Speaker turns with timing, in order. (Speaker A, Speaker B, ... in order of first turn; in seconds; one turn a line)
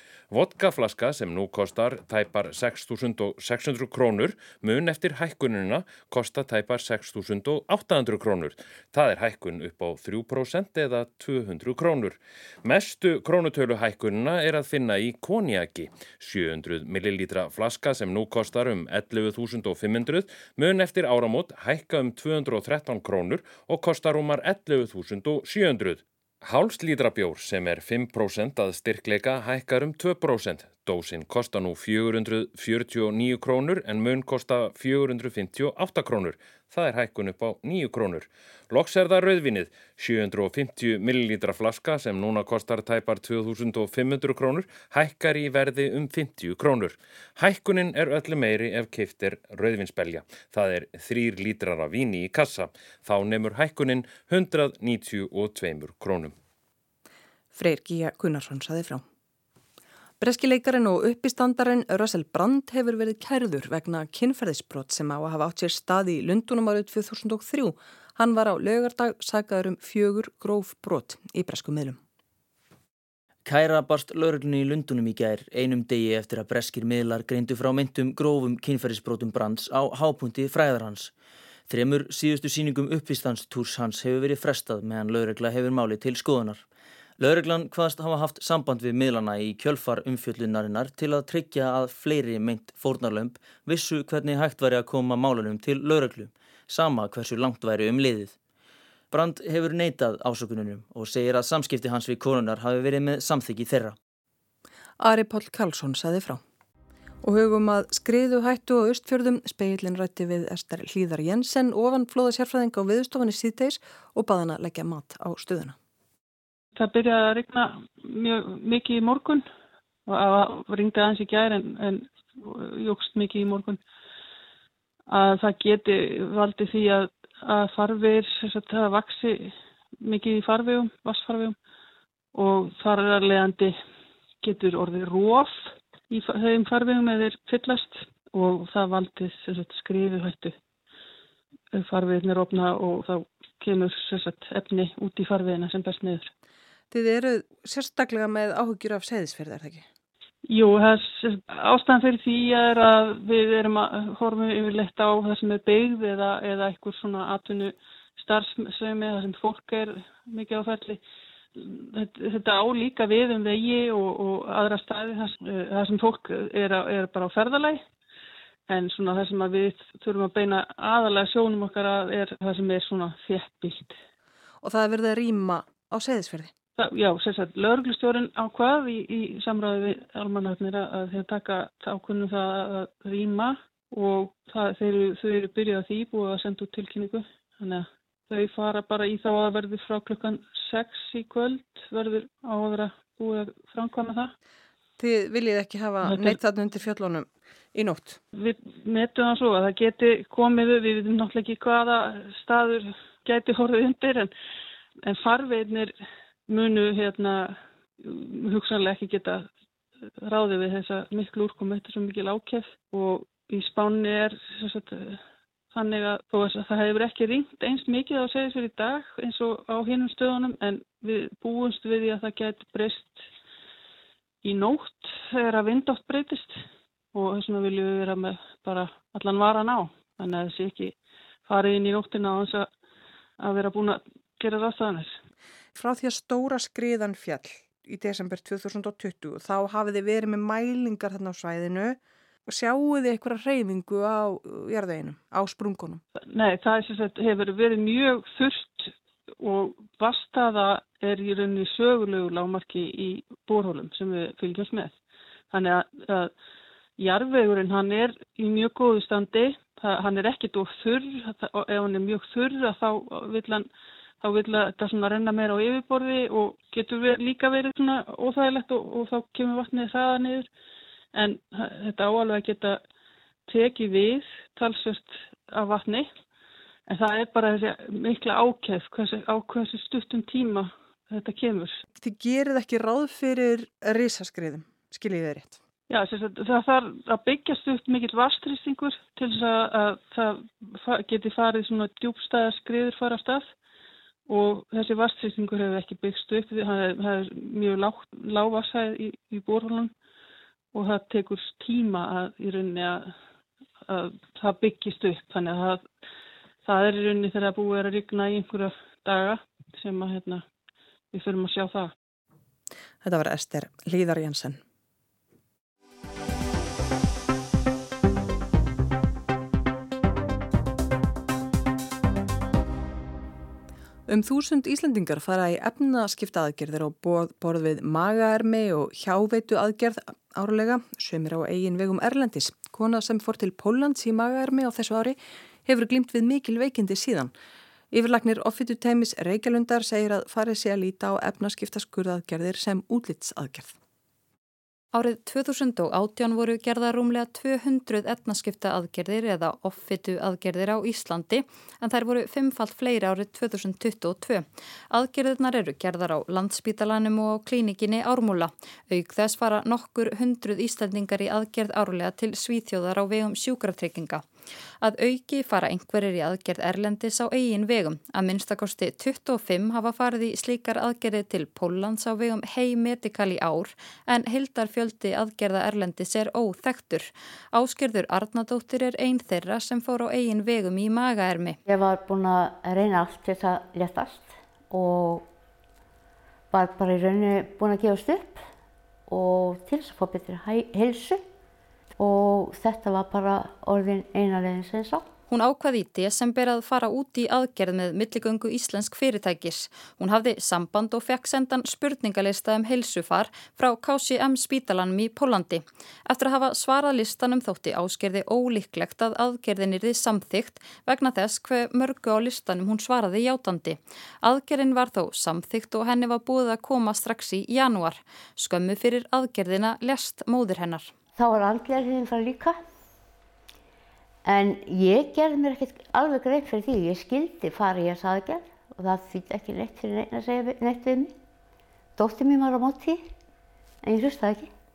Speaker A: 0.3-56.4
Speaker B: 57.5-59.0
Speaker B: 60.2-72.0
Speaker C: 73.4-81.1
Speaker C: 81.7-86.6
Speaker C: 87.2-98.3
Speaker C: 99.1-104.0
Speaker B: 105.0-106.4
Speaker B: 107.2-115.8
Speaker D: 116.7-119.4
Speaker D: 120.1-123.8
Speaker D: 125.1-131.6
Speaker D: 132.3-133.7
Speaker D: 134.4-140.6
Speaker D: 141.7-146.3
Speaker B: 146.9-149.8
Speaker D: 150.5-161.0
Speaker D: 161.5-167.8
Speaker D: 168.7-173.9
Speaker B: 174.6-176.5
Speaker D: 176.8-194.3
Speaker B: 195.0-198.2
Speaker D: 196.0-196.4
Speaker D: 198.3-204.3
Speaker D: 205.0-205.9
Speaker D: 206.5-209.5
Speaker D: 210.2-215.2
Speaker D: 215.7-223.2
Speaker D: 224.4-226.6
Speaker D: 227.1-230.9
Speaker D: 231.4-232.7
Speaker D: 233.4-235.2
Speaker B: 235.7-246.0
Speaker D: 246.3-254.9
Speaker D: 255.5-256.3
Speaker D: 257.0-263.7
Speaker D: 264.2-270.5
Speaker D: 271.1-272.8
Speaker D: 273.5-276.1
Speaker D: 276.9-281.8
Speaker B: 282.0-285.6
Speaker D: 285.9-293.5
Speaker D: 294.3-299.9
Speaker D: 300.7-303.1
Speaker D: 303.9-305.9
Speaker D: 306.6-310.4
Speaker D: 311.1-311.9
Speaker B: 313.0-314.6
Speaker B: 324.1-337.3
Speaker B: 337.9-343.8
Speaker E: 344.9-364.2
Speaker E: 364.8-381.6
Speaker F: 381.7-385.2
Speaker F: 386.5-388.4
Speaker F: 389.1-391.2
Speaker F: 392.0-395.1
Speaker E: 395.3-420.9
Speaker F: 421.1-422.6
Speaker F: 424.2-431.1
Speaker F: 431.9-433.0
Speaker F: 433.8-434.5